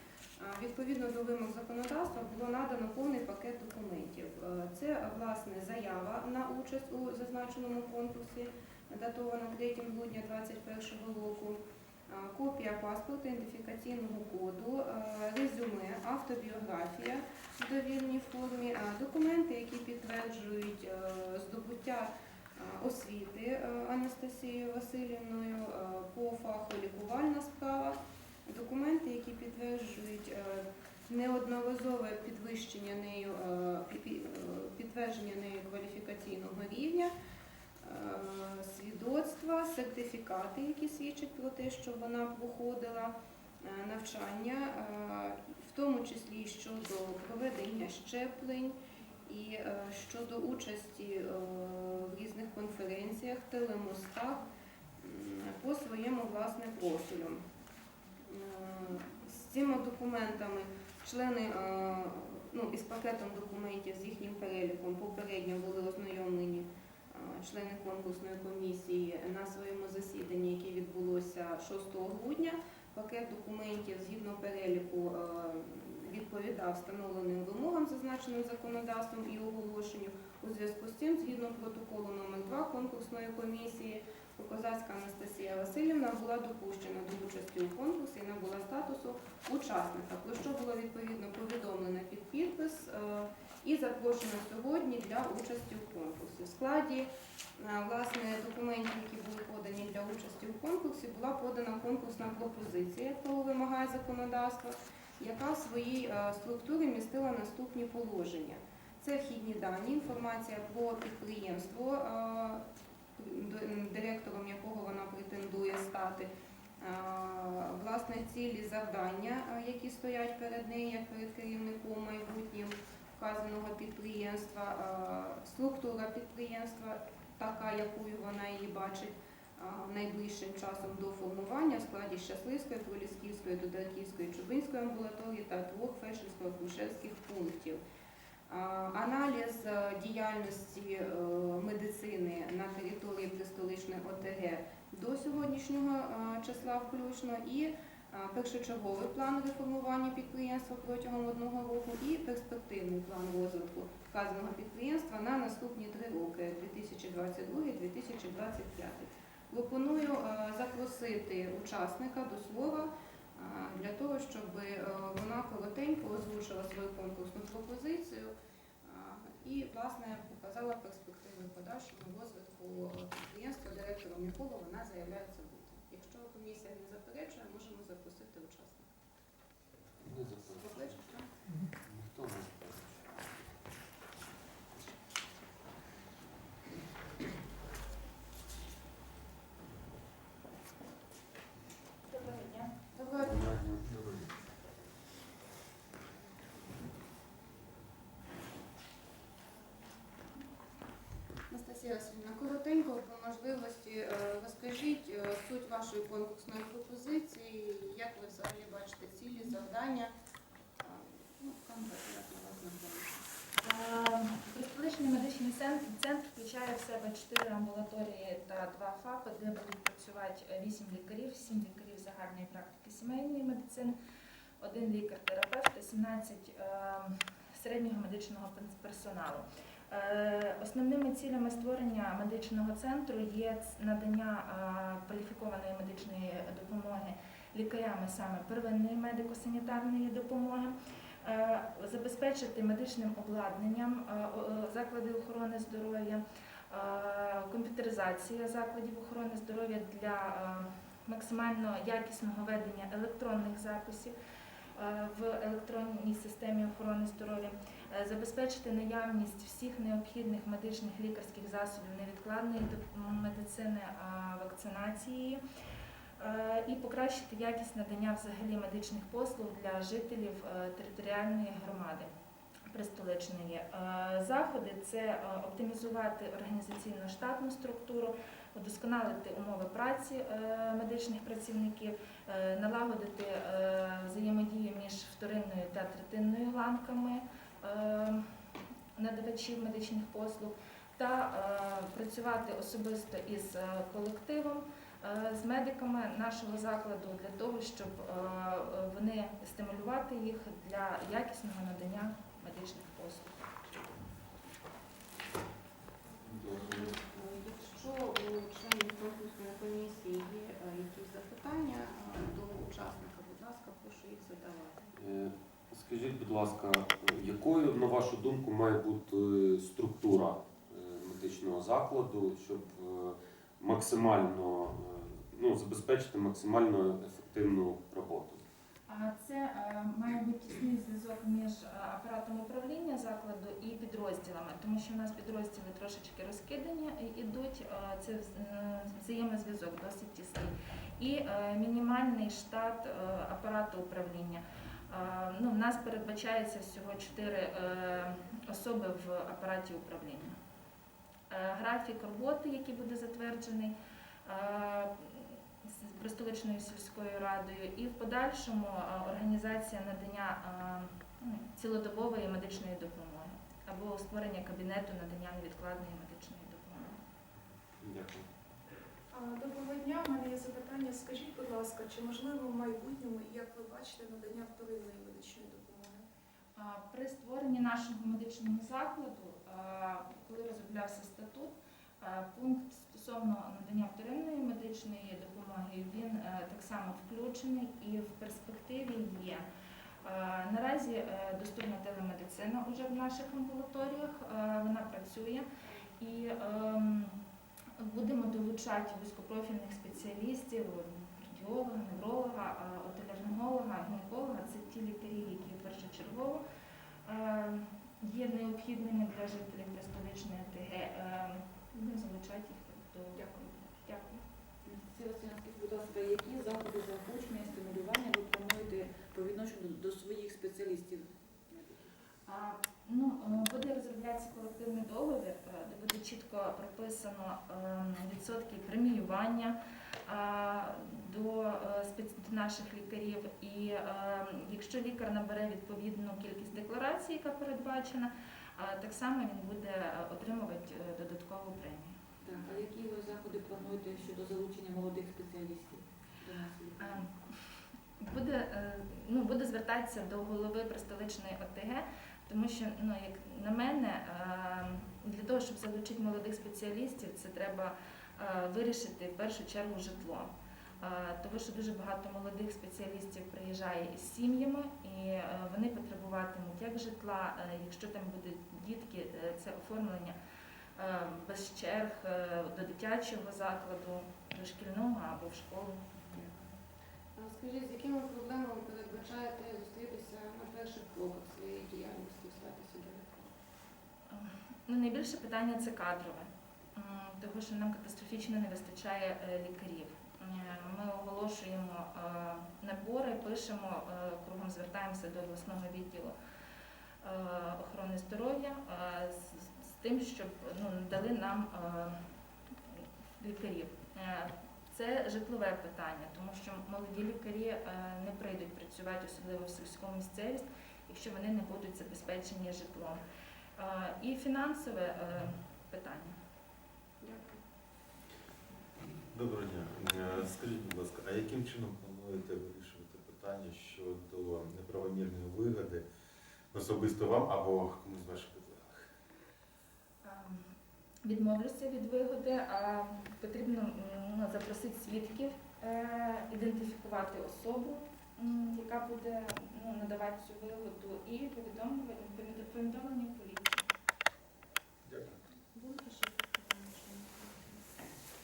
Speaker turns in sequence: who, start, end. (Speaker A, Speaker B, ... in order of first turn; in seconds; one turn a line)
Speaker A: 0.4-37.1
Speaker A: 37.8-54.4
Speaker A: 55.0-57.4
Speaker A: 58.3-112.6
Speaker A: 113.2-116.3
Speaker A: 116.8-137.8
Speaker A: 138.5-178.9
Speaker B: 180.1-180.8
Speaker A: 180.6-181.3
Speaker B: 181.9-183.1
Speaker C: 192.1-192.7
Speaker A: 192.9-193.6
Speaker B: 193.2-194.1
Speaker A: 201.5-210.1
Speaker A: 210.8-213.2
Speaker C: 213.6-223.9
Speaker C: 224.6-254.1
Speaker C: 254.8-265.4
Speaker C: 266.2-272.1
Speaker C: 272.7-288.3
Speaker C: 288.9-303.5
Speaker A: 306.2-314.9
Speaker B: 315.0-328.4
Speaker C: 328.9-350.3
Speaker C: 351.3-353.7
Speaker C: 354.2-367.0
Speaker B: 367.8-368.2
Speaker D: 369.1-376.1
Speaker C: 376.6-389.4
Speaker C: 390.0-395.4
Speaker C: 396.0-397.2
Speaker C: 397.8-406.4
Speaker C: 407.1-414.2
Speaker E: 414.6-421.9
Speaker C: 422.3-429.6
Speaker C: 430.1-441.9
Speaker E: 442.2-447.0
Speaker C: 446.8-447.4
Speaker C: 448.0-470.2
Speaker C: 470.8-475.8
Speaker A: 476.1-476.4
Speaker A: 477.2-483.3
Speaker C: 484.1-496.1
Speaker C: 497.0-502.0
Speaker C: 502.7-513.0
Speaker C: 513.6-516.1
Speaker A: 517.0-517.4
Speaker F: 519.1-525.9
Speaker F: 526.5-528.9
Speaker C: 530.0-530.4
Speaker C: 531.0-543.6
Speaker F: 544.9-545.2
Speaker A: 545.5-547.7